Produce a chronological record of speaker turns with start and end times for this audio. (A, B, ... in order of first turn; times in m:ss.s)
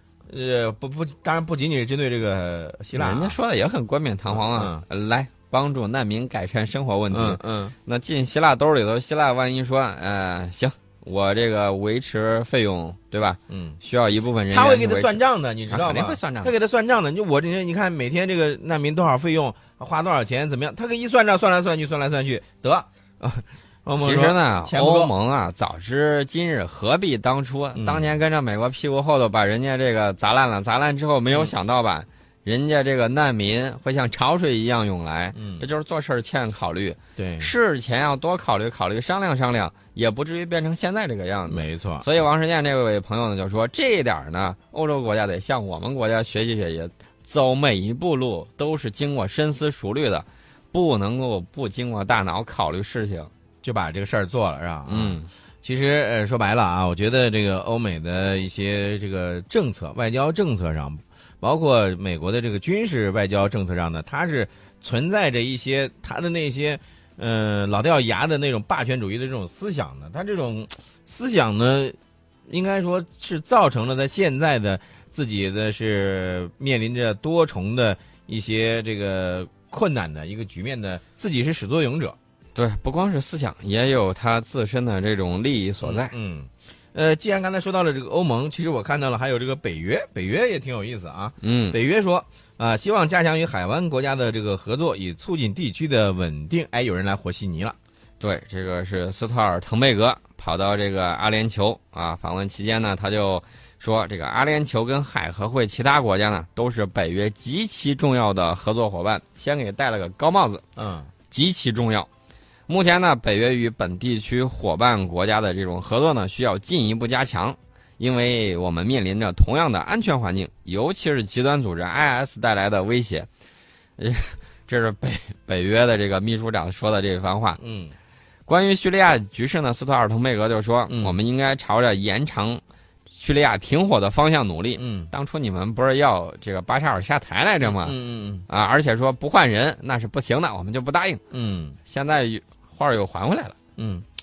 0:00.3-0:03.4 A
0:02.9-0:16.5 B
0:04.3-0:04.8 A
0:07.1-0:07.7 A
0:13.5-0:13.8 A
0:14.5-0:25.1 A
0:24.0-0:53.3 B
0:27.7-0:28.2 A
0:35.3-0:35.7 A
0:37.2-0:37.5 A
0:41.5-0:42.0 A
0:53.6-1:12.0 A
0:54.9-0:55.3 B
1:12.5-1:22.2 A
1:22.5-1:26.1 B
1:25.8-1:37.8 A
1:31.4-1:31.8 B
1:38.2-1:50.6 B
1:50.8-1:51.1 A
1:51.3-1:52.1 B
1:52.7-2:03.3 B
2:04.0-2:07.6 B
2:07.6-2:07.9 A
2:08.5-2:18.0 B
2:10.9-2:11.2 A
2:14.8-2:15.1 A
2:17.6-2:18.4 A
2:18.5-2:21.2 B
2:21.3-2:21.8 A
2:21.9-2:23.6 B
2:23.8-2:24.1 A